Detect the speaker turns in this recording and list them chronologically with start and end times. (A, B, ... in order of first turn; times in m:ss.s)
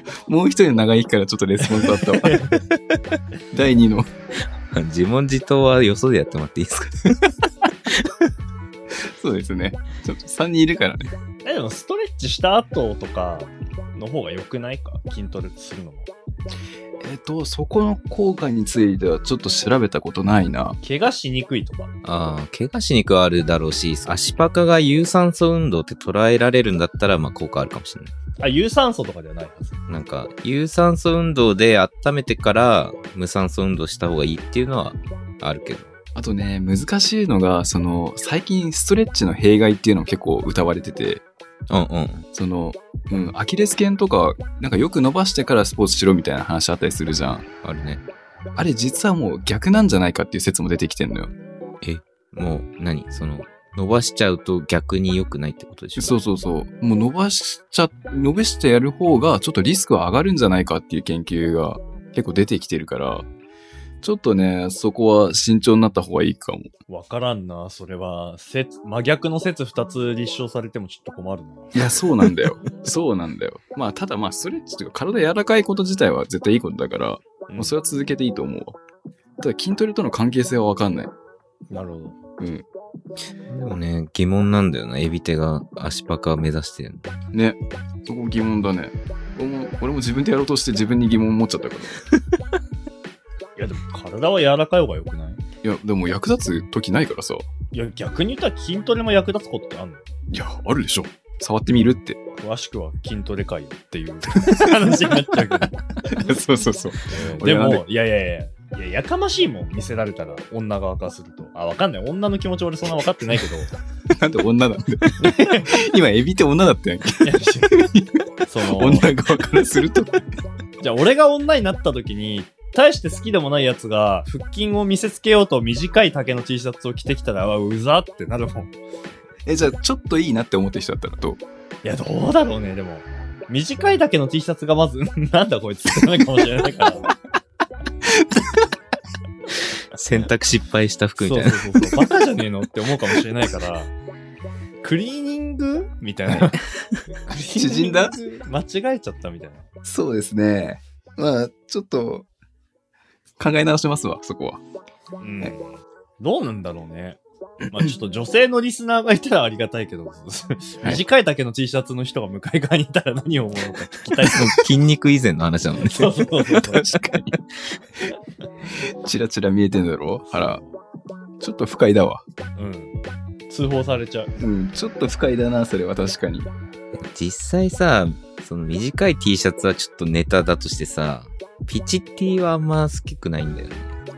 0:00.2-0:02.4 A
0:02.1-0:02.6 B
0:03.5-0:04.1 A
0:04.7-0:08.1 C
0:08.9-0:11.1 A
0:11.4-0:16.1 B
0:17.0-0:20.8 A
0:20.8-0:21.9 B
0:22.0-0:28.1 C
0:28.4-0:29.9 B
0:29.9-0:35.9 C
0:36.1-0:41.2 A
0:41.7-0:42.2 C
0:42.3-0:47.4 A
0:47.6-0:48.0 C
0:48.6-0:51.3 A
0:51.8-0:56.2 C
0:56.0-1:03.2 A
1:04.0-1:06.7 A
1:06.9-1:11.8 B
1:11.7-1:18.8 A
1:17.5-1:17.7 B
1:19.4-1:21.1 A
1:21.7-1:22.2 B
1:22.4-1:22.6 A
1:23.5-1:27.1 C
1:27.3-1:32.0 A
1:33.6-1:35.4 B
1:35.6-1:37.5 A
1:37.7-1:40.0 B
1:40.3-1:42.2 A
1:42.4-1:45.8 B
1:46.0-1:47.8 A
1:47.1-1:53.7 B
1:54.1-2:00.2 A
1:55.2-1:55.8 B
1:57.2-1:57.8 B
1:58.4-1:59.1 B
2:00.8-2:08.7 B
2:09.4-2:11.4 A
2:11.8-2:17.1 B
2:18.0-2:18.5 A
2:19.9-2:21.8 C
2:21.2-2:23.9 B
2:24.8-2:29.7 B
2:27.5-2:28.2 A
2:29.8-2:32.2 A
2:33.4-2:34.6 A
2:35.2-2:44.6 B
2:44.2-2:46.6 C
2:45.8-2:46.9 B
2:46.6-2:47.4 A
2:48.7-2:50.6 A
2:50.3-2:50.8 B
2:51.4-2:52.2 A
2:52.6-2:52.9 B
2:53.5-2:54.3 B
2:54.4-2:56.5 A
2:57.0-3:03.9 C